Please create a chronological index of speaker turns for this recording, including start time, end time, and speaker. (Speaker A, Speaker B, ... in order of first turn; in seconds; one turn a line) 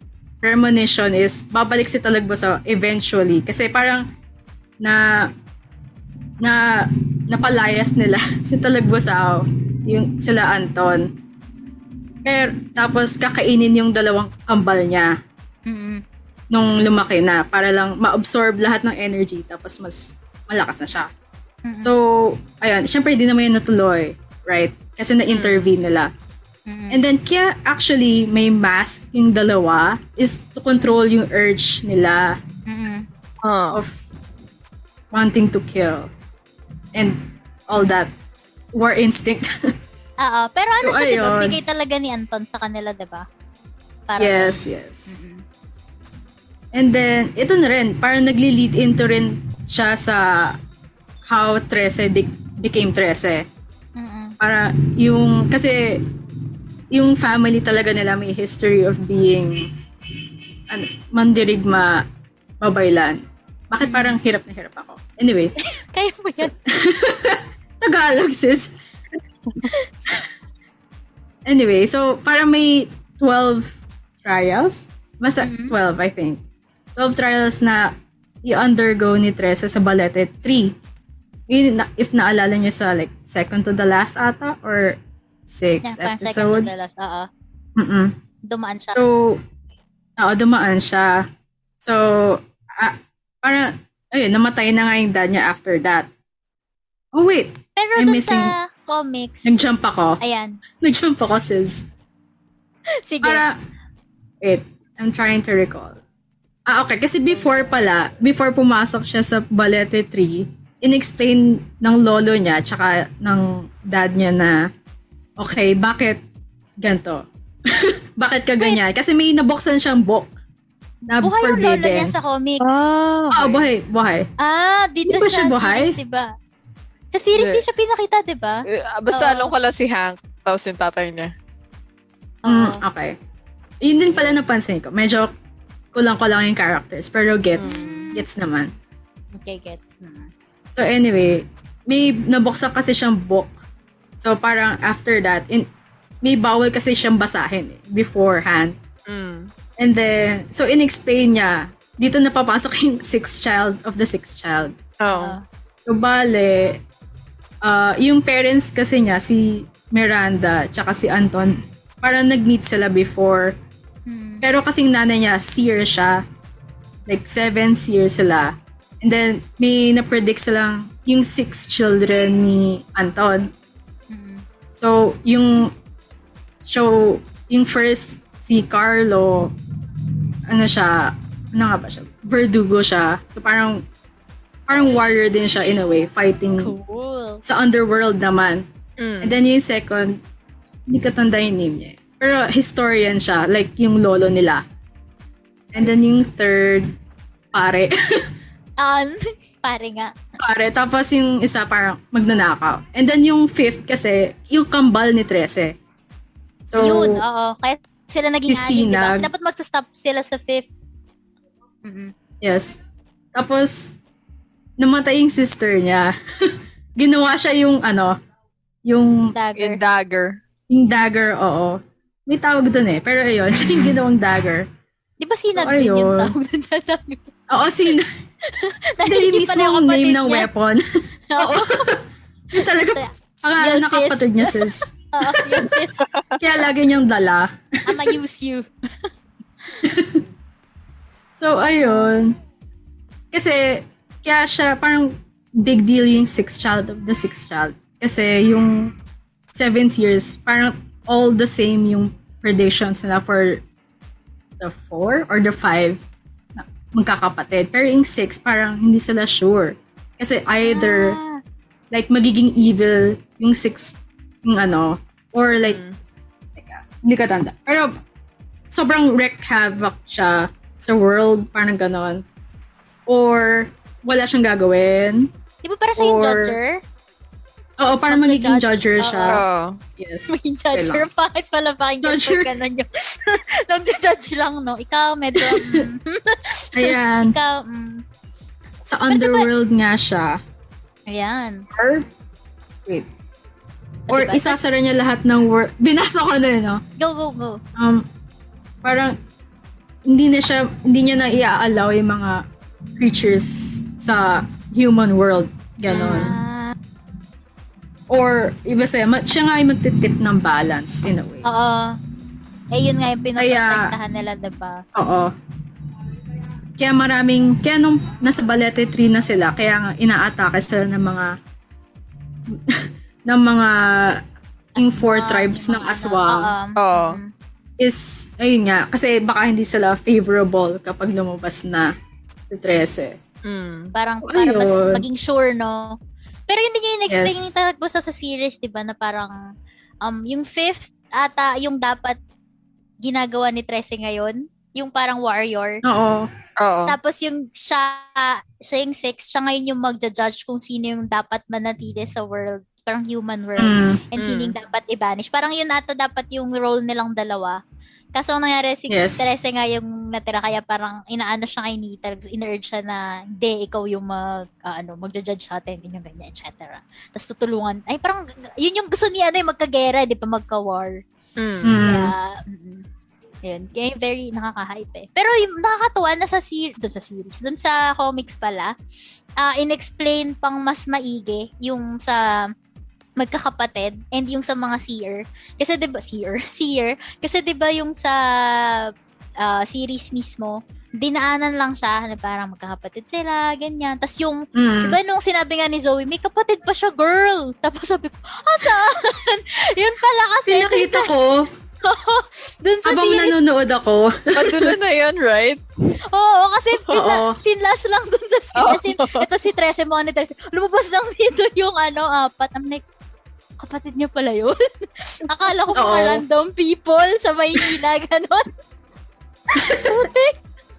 Speaker A: 0.4-4.0
Speaker A: 6.4-11.1
Speaker A: 12.2-15.1
Speaker B: 15.7-16.0
Speaker A: 16.5-21.1
Speaker B: 21.7-21.9
Speaker A: 21.8-26.1
Speaker C: 25.3-25.6
Speaker B: 26.7-27.0
Speaker A: 26.9-32.3
Speaker B: 32.7-33.1
Speaker C: 33.4-33.8
Speaker A: 33.7-34.0
Speaker A: 35.1-36.1
Speaker A: 37.0-38.1
Speaker A: 38.8-39.5
Speaker B: 40.2-43.2
Speaker A: 40.8-41.6
Speaker B: 44.1-45.4
Speaker A: 44.2-45.2
Speaker A: 46.7-50.5
Speaker A: 51.3-53.5
Speaker B: 54.0-54.4
Speaker A: 54.4-56.0
Speaker A: 56.9-62.0
Speaker A: 62.6-65.5
Speaker B: 63.8-64.2
Speaker B: 65.7-66.5
Speaker A: 66.4-68.7
Speaker A: 71.5-76.4
Speaker B: 75.4-75.8
Speaker A: 77.0-77.9
Speaker A: 78.4-80.8
Speaker A: 81.5-86.7
Speaker B: 85.8-87.3
Speaker A: 87.8-88.2
Speaker B: 88.5-89.0
Speaker A: 89.0-89.4
Speaker A: 90.2-91.2
Speaker A: 91.8-96.1
Speaker A: 97.2-98.5
Speaker B: 97.8-99.5
Speaker A: 99.5-100.2
Speaker B: 100.2-100.6
Speaker A: 100.8-101.9
Speaker B: 103.0-103.4
Speaker A: 103.2-103.5
Speaker A: 104.4-106.0
Speaker A: 106.7-114.6
Speaker B: 107.3-107.7
Speaker A: 115.4-116.2
Speaker A: 116.8-120.3
Speaker A: 121.1-122.1
Speaker B: 121.1-122.8
Speaker C: 122.6-123.6
Speaker A: 123.3-124.3
Speaker B: 124.4-126.3
Speaker A: 125.1-126.0
Speaker B: 127.1-129.5
Speaker C: 127.3-127.6
Speaker C: 128.7-131.3
Speaker B: 132.4-132.8
Speaker A: 132.5-133.2
Speaker A: 133.8-135.3
Speaker A: 135.9-138.7
Speaker C: 137.6-137.9
Speaker B: 137.7-138.3
Speaker B: 139.4-140.3
Speaker A: 140.8-143.5
Speaker A: 144.2-145.7
Speaker A: 146.2-148.8
Speaker C: 149.1-149.5
Speaker A: 149.8-154.8
Speaker C: 155.0-155.4
Speaker B: 155.1-155.4
Speaker A: 155.9-156.8
Speaker A: 157.6-163.6
Speaker B: 164.1-164.4
Speaker A: 164.4-166.2
Speaker A: 167.1-173.5
Speaker B: 174.1-174.4
Speaker A: 174.8-175.7
Speaker A: 176.6-183.8
Speaker A: 184.7-186.7
Speaker B: 186.6-187.4
Speaker A: 187.4-188.7
Speaker C: 189.0-189.4
Speaker A: 189.2-190.2
Speaker A: 190.9-194.6
Speaker A: 195.7-196.9
Speaker A: 197.5-198.2
Speaker B: 198.8-200.1
Speaker A: 200.4-205.8
Speaker A: 206.7-207.2
Speaker B: 206.8-210.7
Speaker A: 208.5-209.3
Speaker B: 211.9-212.1
Speaker A: 212.4-212.8
Speaker A: 213.3-214.0
Speaker A: 214.8-218.2
Speaker A: 218.9-219.3
Speaker B: 219.3-219.8
Speaker C: 219.6-220.4
Speaker A: 220.7-224.7
Speaker B: 225.2-227.2
Speaker A: 225.5-226.3
Speaker A: 227.5-228.1
Speaker B: 228.5-230.5
Speaker A: 229.1-230.8
Speaker B: 231.3-231.9
Speaker A: 231.4-235.9
Speaker B: 232.7-236.1
Speaker C: 236.0-236.4
Speaker A: 236.4-238.2
Speaker B: 237.9-238.7
Speaker A: 239.8-240.2
Speaker A: 241.3-242.4
Speaker B: 241.8-242.1
Speaker A: 243.3-248.9
Speaker A: 249.5-253.6
Speaker A: 254.6-256.0
Speaker A: 256.6-261.2
Speaker B: 260.6-261.4
Speaker A: 261.9-265.8
Speaker C: 265.6-266.0
Speaker A: 266.6-267.9
Speaker A: 268.7-272.2
Speaker A: 273.1-275.3
Speaker B: 275.6-276.8
Speaker A: 276.0-276.6
Speaker A: 277.8-279.4
Speaker B: 278.1-279.4
Speaker C: 279.3-279.8
Speaker A: 280.0-281.1
Speaker B: 280.3-288.0
Speaker A: 282.0-282.6
Speaker A: 285.4-285.9
Speaker A: 286.7-287.4
Speaker A: 288.9-290.4
Speaker B: 289.1-289.5
Speaker B: 291.1-291.6
Speaker A: 291.7-292.1
Speaker B: 294.1-294.6
Speaker A: 294.1-296.8
Speaker B: 297.0-297.6
Speaker A: 297.8-298.1
Speaker A: 298.8-299.1
Speaker A: 300.1-302.4
Speaker A: 303.0-306.3
Speaker C: 305.9-306.3
Speaker B: 305.9-306.8
Speaker A: 308.1-311.5
Speaker B: 311.4-311.9
Speaker B: 312.7-314.8
Speaker A: 313.4-313.9
Speaker A: 314.9-315.3
Speaker A: 316.8-321.3
Speaker A: 322.5-324.1
Speaker B: 324.8-327.3
Speaker A: 324.8-326.5
Speaker C: 326.8-327.2
Speaker A: 327.8-331.9
Speaker A: 332.5-333.2
Speaker C: 333.4-333.9
Speaker B: 333.9-336.0
Speaker A: 334.2-335.0
Speaker B: 336.5-339.4
Speaker A: 337.1-337.5
Speaker B: 340.0-342.2
Speaker B: 343.0-345.8
Speaker A: 345.8-346.3
Speaker C: 346.6-347.0
Speaker B: 346.9-357.6
Speaker A: 353.6-354.0
Speaker C: 354.2-354.6
Speaker B: 358.1-371.0
Speaker A: 358.9-359.3
Speaker C: 371.4-371.8
Speaker A: 371.6-372.1
Speaker B: 371.9-372.9
Speaker B: 373.4-378.7
Speaker B: 379.4-382.2
Speaker B: 383.2-388.8
Speaker B: 389.4-401.1
Speaker A: 394.6-395.0
Speaker A: 400.5-401.5
Speaker B: 401.8-403.4
Speaker A: 402.9-404.8
Speaker C: 404.4-405.6
Speaker B: 406.1-412.8
Speaker A: 406.9-407.4
Speaker C: 408.6-409.3
Speaker B: 413.6-418.5
Speaker A: 415.8-416.2
Speaker B: 419.5-420.4
Speaker A: 419.6-420.1